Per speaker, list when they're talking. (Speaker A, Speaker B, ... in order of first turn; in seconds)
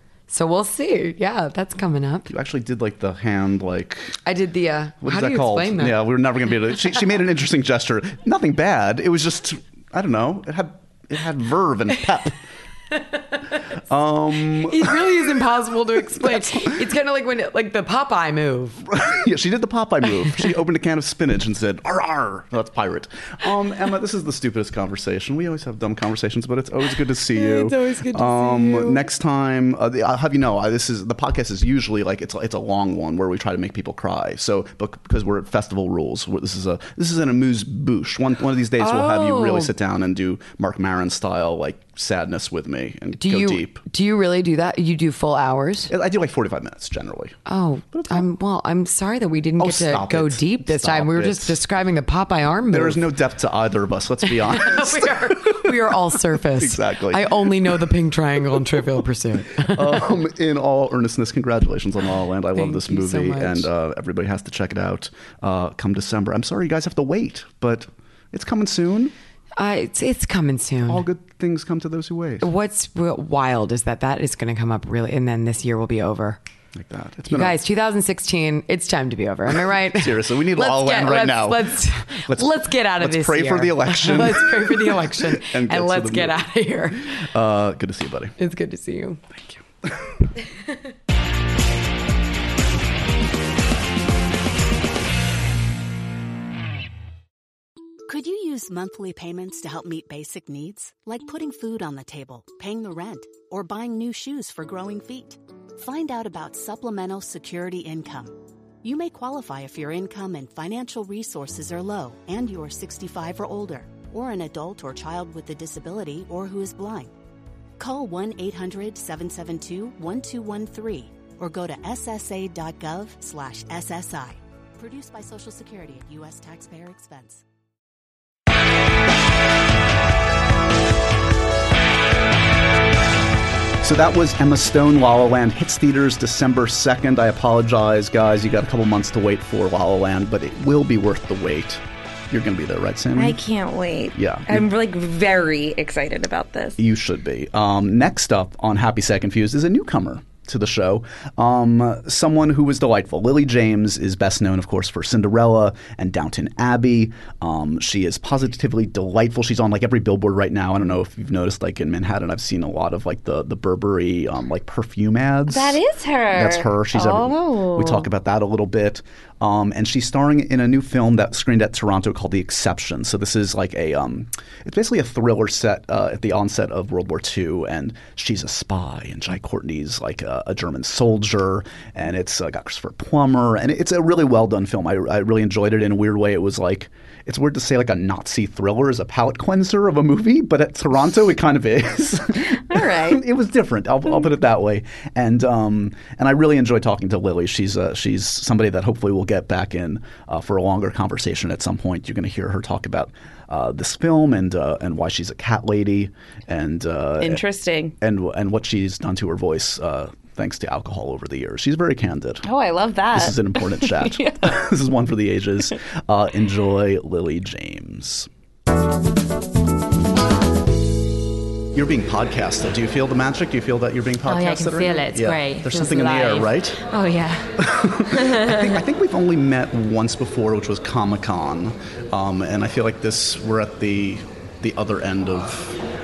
Speaker A: 0.3-2.3, 4.2-6.1, 14.5-18.9, 27.3-29.1, 38.8-39.7, 43.2-45.9, 47.5-53.0, 54.2-60.1, 62.5-63.7, 69.6-71.1, 72.4-76.4, 77.3-87.2, 88.4-89.3
Speaker B: 2.3-4.2, 5.0-12.4, 13.9-15.0, 16.1-16.7, 18.9-43.8, 45.9-47.4, 47.9-48.2, 49.6-51.6, 52.7-57.9, 58.5-58.8, 59.6-69.1, 70.9-72.5, 76.8-77.6, 79.8-86.5, 87.0-88.4, 89.8-90.1, 133.8-143.4, 144.1-144.7, 146.8-165.8, 166.3-207.4, 208.0-212.5, 213.1-218.3, 221.7-226.8, 227.6-235.8
Speaker C: 98.1-117.1, 117.8-127.4
Speaker D: 143.2-146.8, 165.5-168.1, 192.7-193.2, 207.2-207.9, 212.4-214.6
Speaker E: 224.2-227.5, 228.1-228.8